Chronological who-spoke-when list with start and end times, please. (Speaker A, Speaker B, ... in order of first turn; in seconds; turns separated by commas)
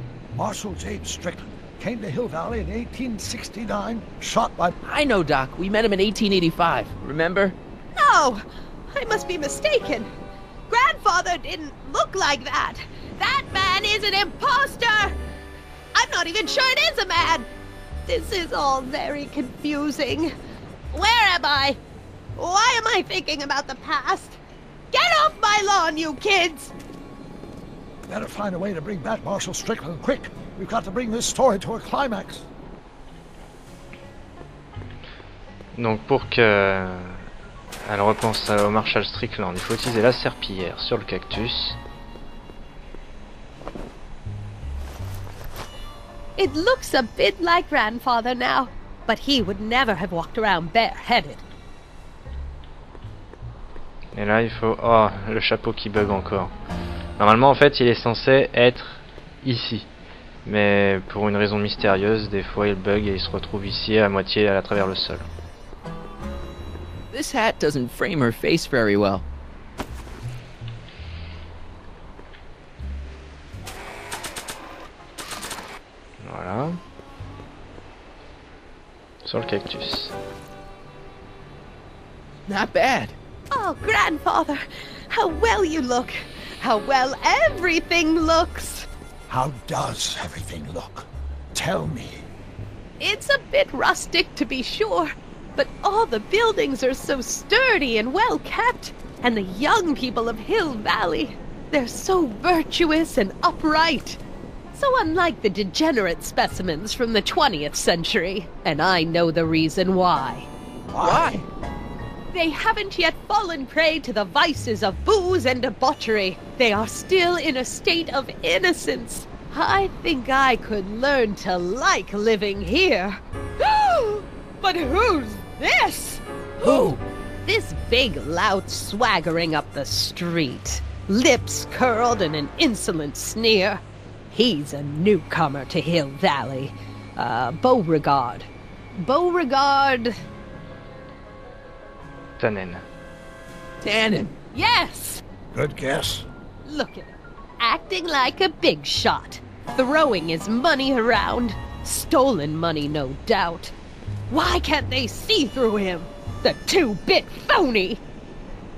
Speaker A: 0.3-4.8, Speaker B: 4.8-7.5, Speaker C: 7.9-8.4, Speaker C: 8.9-10.1, Speaker C: 10.7-15.1, Speaker C: 15.9-17.5, Speaker C: 18.1-20.3, Speaker C: 20.9-21.8, Speaker C: 22.4-24.4, Speaker C: 24.9-26.7, Speaker A: 28.1-32.5, Speaker D: 35.7-37.2, Speaker D: 37.9-41.8, Speaker C: 46.4-51.4, Speaker D: 54.1-56.5, Speaker D: 57.2-59.9, Speaker D: 60.4-65.2, Speaker B: 67.1-69.2, Speaker D: 76.2-76.8, Speaker D: 79.2-80.1, Speaker B: 82.5-83.1, Speaker C: 83.5-88.9, Speaker A: 89.3-92.3, Speaker C: 93.0-104.2, Speaker C: 104.7-110.5, Speaker B: 110.9-111.4, Speaker C: 111.0-111.3, Speaker C: 112.3-133.8, Speaker B: 126.6-127.0, Speaker C: 134.3-140.1, Speaker D: 142.4-142.8, Speaker B: 143.8-144.3, Speaker C: 144.5-145.2, Speaker A: 145.5-146.3, Speaker C: 146.6-153.7, Speaker C: 154.3-158.0